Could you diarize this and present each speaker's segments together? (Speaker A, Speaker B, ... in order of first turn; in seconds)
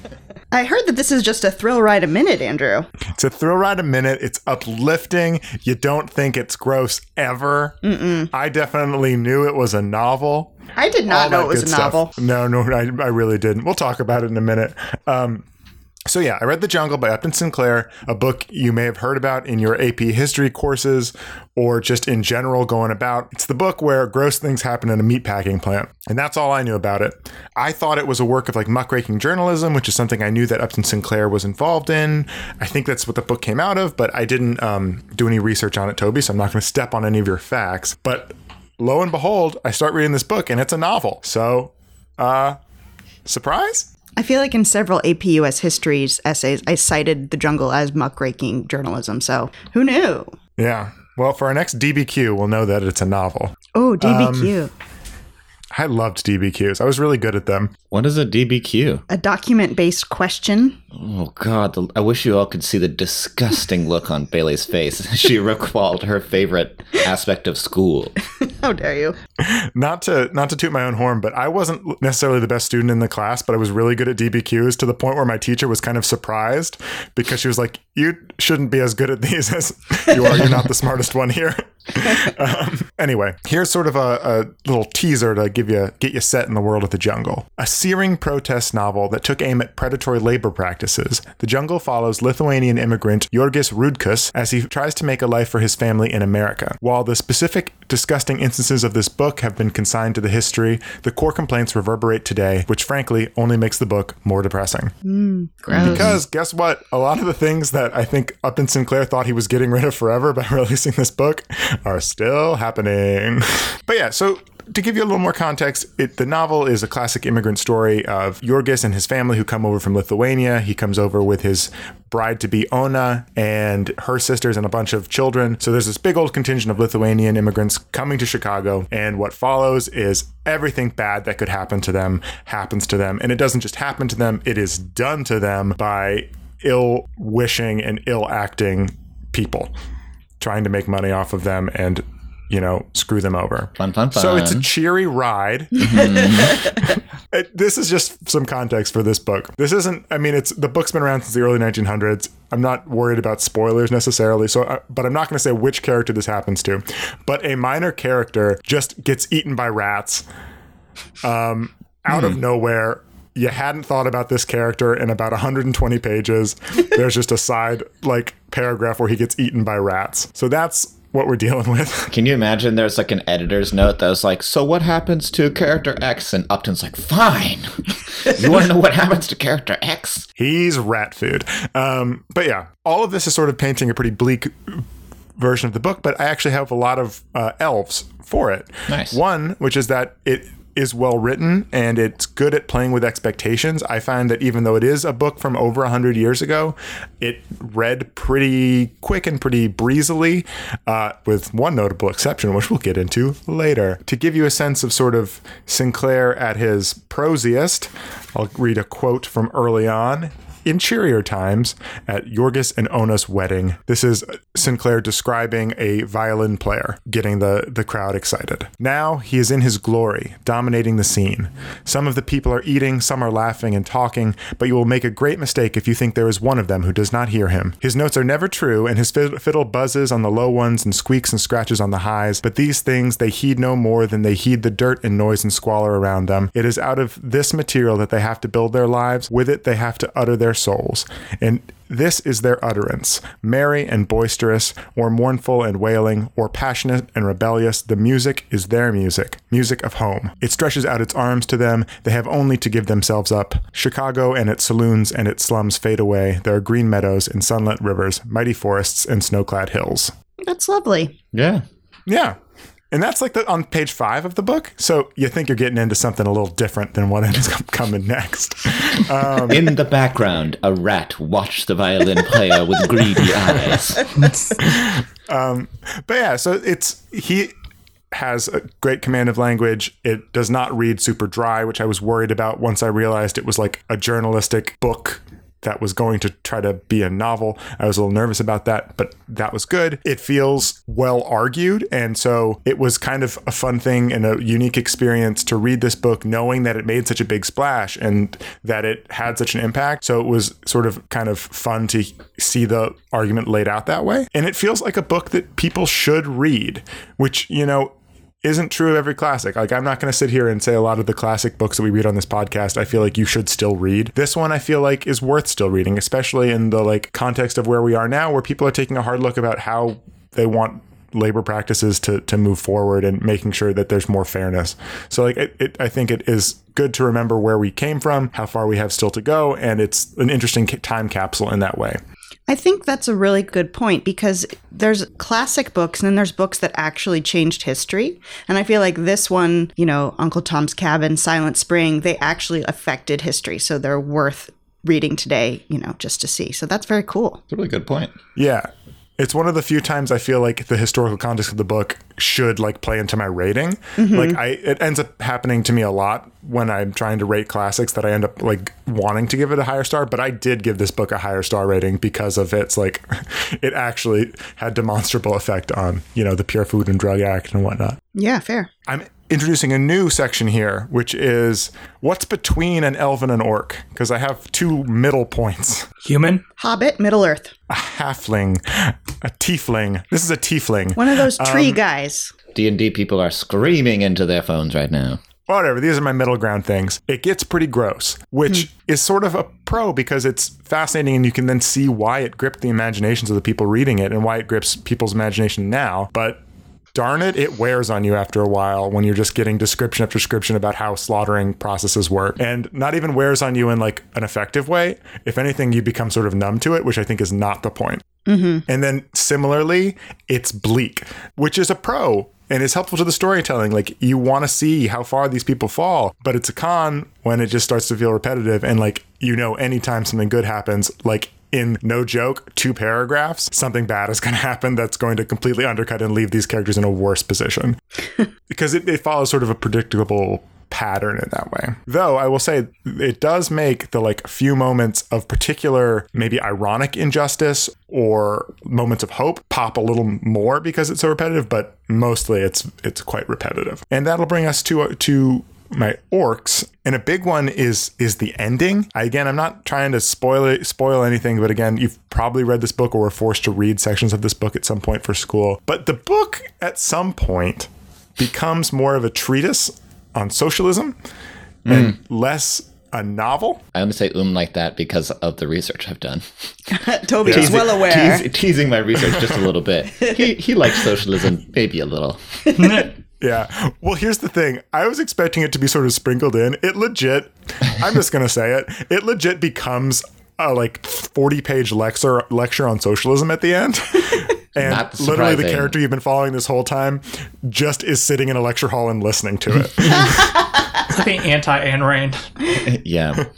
Speaker A: 0.5-2.9, 7.8-8.3, 10.8-12.1, 44.2-50.4, 53.7-54.7, 59.1-60.8, 68.4-69.2, 105.0-106.1, 260.4-261.1, 332.5-347.4, 354.0-354.4, 368.1-368.7, 376.6-377.5, 381.0-382.3, 408.2-408.6, 466.7-468.2
Speaker B: 3.1-7.8, 8.3-10.6, 11.1-15.4, 16.1-42.6, 43.2-43.9, 50.6-54.5, 55.7-57.7, 69.4-104.9, 105.8-139.7, 140.4-160.2, 161.2-172.1, 180.4-184.8, 185.4-260.1, 262.1-262.4, 262.9-269.7, 274.6-277.5, 278.1-332.0, 348.4-368.0, 368.9-375.9, 377.7-381.8, 385.5-396.4, 396.9-408.0, 408.7-427.8, 428.5-460.9, 461.6-463.6, 467.2-467.6, 469.1-469.4, 473.2-490.3
Speaker C: 57.9-59.0, 60.9-68.1, 105.7-106.1, 143.8-144.6, 145.8-146.8, 172.1-180.2, 188.9-189.2, 261.3-261.6, 269.4-274.3, 347.5-348.1, 382.5-385.2, 461.6-461.9, 463.7-466.2, 467.2-472.2, 484.6-485.7, 492.5-493.3
Speaker D: 376.0-376.4, 472.6-472.9, 490.8-492.3